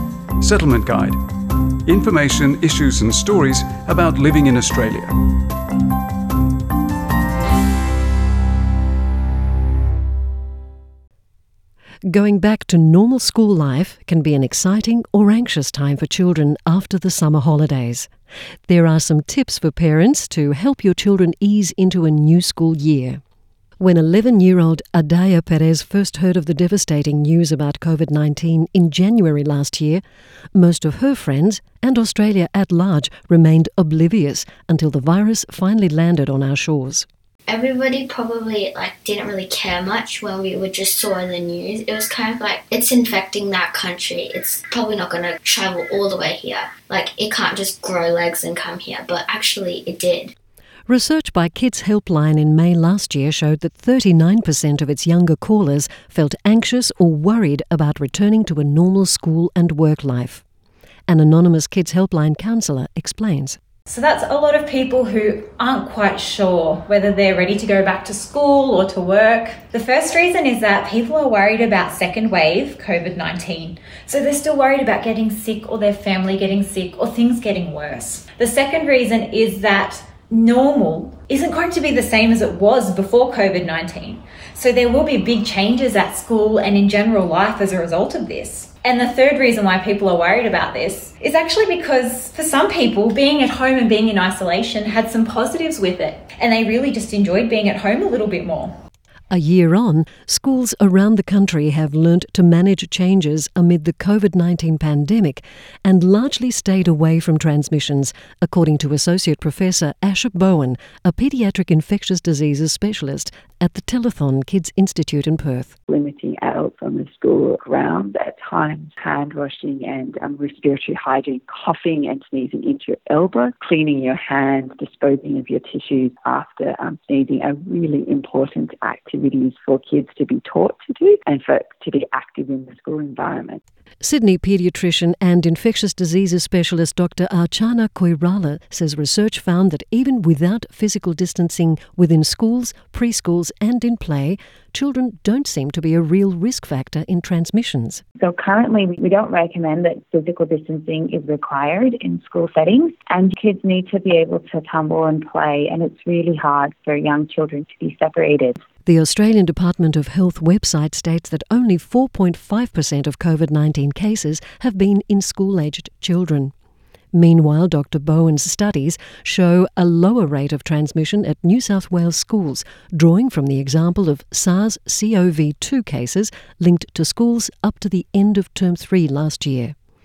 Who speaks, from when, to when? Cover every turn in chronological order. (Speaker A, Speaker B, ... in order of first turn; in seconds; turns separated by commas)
Speaker A: 0.4-1.2, Speaker A: 1.9-5.1, Speaker B: 12.1-18.1, Speaker B: 18.7-23.2, Speaker B: 23.8-30.0, Speaker B: 30.5-37.1, Speaker C: 37.5-50.3, Speaker B: 50.9-60.4, Speaker B: 61.1-63.6, Speaker D: 63.9-98.8, Speaker B: 99.3-115.7, Speaker E: 115.9-133.6, Speaker B: 134.0-148.0, Speaker F: 148.2-158.6, Speaker B: 158.8-166.5, Speaker B: 167.1-179.7